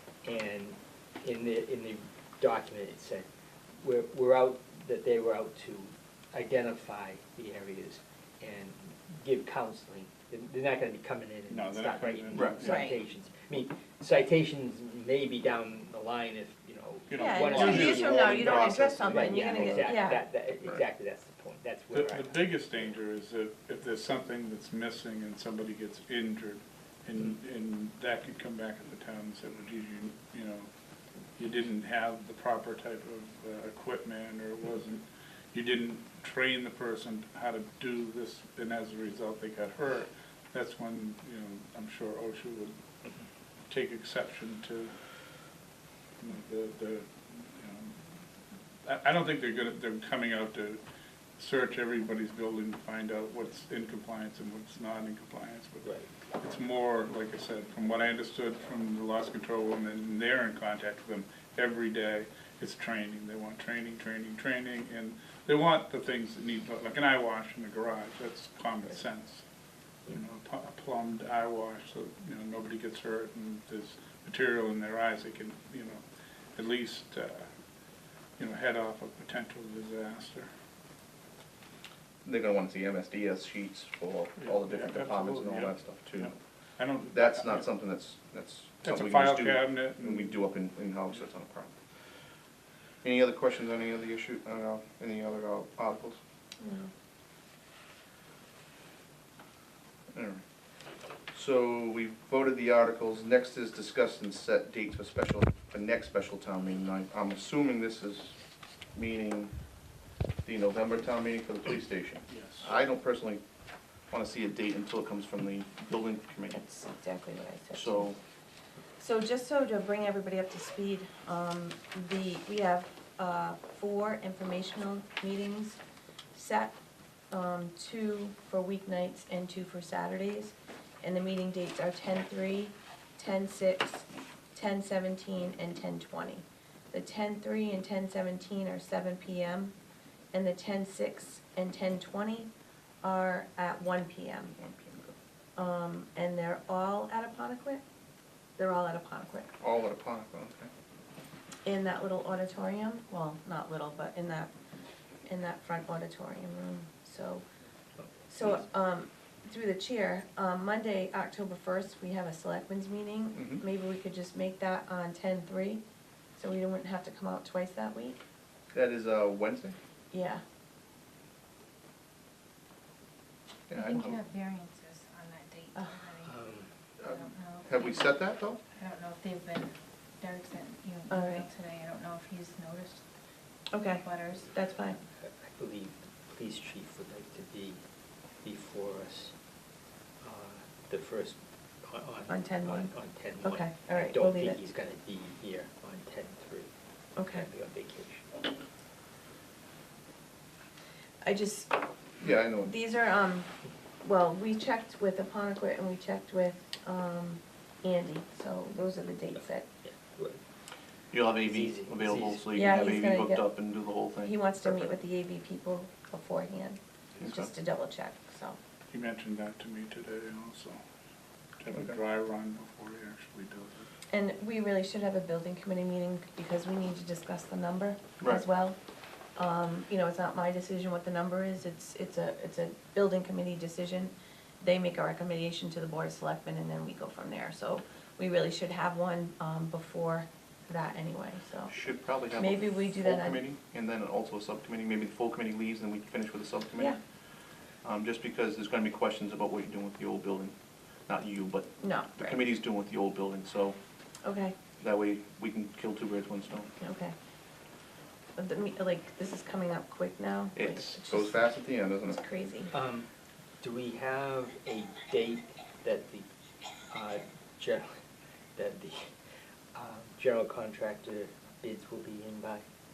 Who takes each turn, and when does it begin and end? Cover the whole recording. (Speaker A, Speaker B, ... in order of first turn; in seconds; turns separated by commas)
Speaker A: 0.2-3.3, Speaker A: 3.8-22.5, Speaker B: 11.5-12.9, Speaker C: 12.3-12.6, Speaker D: 12.6-13.0, Speaker B: 17.1-18.6, Speaker D: 17.2-20.2, Speaker C: 17.6-19.9, Speaker B: 21.9-30.7, Speaker B: 31.4-42.8, Speaker B: 43.7-44.9, Speaker B: 46.2-48.0, Speaker B: 48.8-50.8, Speaker B: 51.4-69.4, Speaker A: 55.8-56.1, Speaker B: 70.1-76.0, Speaker B: 76.5-77.5, Speaker B: 78.4-80.5, Speaker C: 82.2-86.3, Speaker B: 84.4-87.7, Speaker C: 87.1-91.8, Speaker B: 88.8-90.4, Speaker C: 93.0-96.2, Speaker D: 96.6-96.9, Speaker C: 100.1-100.4, Speaker C: 101.3-108.4, Speaker C: 108.9-109.5, Speaker C: 110.4-113.4, Speaker B: 112.3-112.7, Speaker C: 114.1-116.6, Speaker D: 116.5-118.1, Speaker C: 117.7-118.2, Speaker D: 119.0-125.8, Speaker D: 126.3-126.8, Speaker D: 127.3-139.7, Speaker D: 140.3-142.5, Speaker D: 143.0-144.5, Speaker C: 144.6-145.1, Speaker D: 145.6-147.8, Speaker D: 148.6-149.5, Speaker C: 149.6-150.7, Speaker D: 151.6-154.5, Speaker D: 155.2-157.4, Speaker D: 158.3-165.8, Speaker C: 163.3-163.6, Speaker D: 166.4-168.2, Speaker C: 168.7-169.8, Speaker D: 170.1-170.4, Speaker C: 173.7-174.2, Speaker E: 173.7-183.0, Speaker D: 175.7-176.1, Speaker A: 176.2-176.7, Speaker C: 177.0-178.6, Speaker D: 181.1-181.5, Speaker D: 183.7-185.0, Speaker E: 183.9-184.5, Speaker A: 185.1-187.8, Speaker A: 188.4-189.3, Speaker A: 190.2-198.5, Speaker D: 192.3-194.6, Speaker D: 197.1-197.4, Speaker D: 201.2-201.8, Speaker C: 202.2-202.7, Speaker D: 202.6-203.5, Speaker D: 204.0-209.7, Speaker A: 209.3-210.4, Speaker C: 211.1-214.9, Speaker A: 211.4-212.5, Speaker D: 212.5-213.7, Speaker D: 214.2-218.6, Speaker C: 217.2-217.5, Speaker B: 218.9-220.8, Speaker B: 221.6-223.9, Speaker D: 224.1-228.8, Speaker C: 228.2-228.4, Speaker D: 229.3-241.8, Speaker C: 241.7-246.9, Speaker D: 242.3-243.4, Speaker C: 247.8-250.5, Speaker C: 251.1-253.8, Speaker D: 251.8-252.4, Speaker D: 254.2-254.6, Speaker C: 254.8-256.7, Speaker D: 256.8-257.1, Speaker D: 258.4-262.7, Speaker C: 260.6-262.2, Speaker A: 262.7-263.1, Speaker A: 263.6-266.3, Speaker A: 266.9-268.0, Speaker A: 268.5-269.1, Speaker A: 269.7-272.6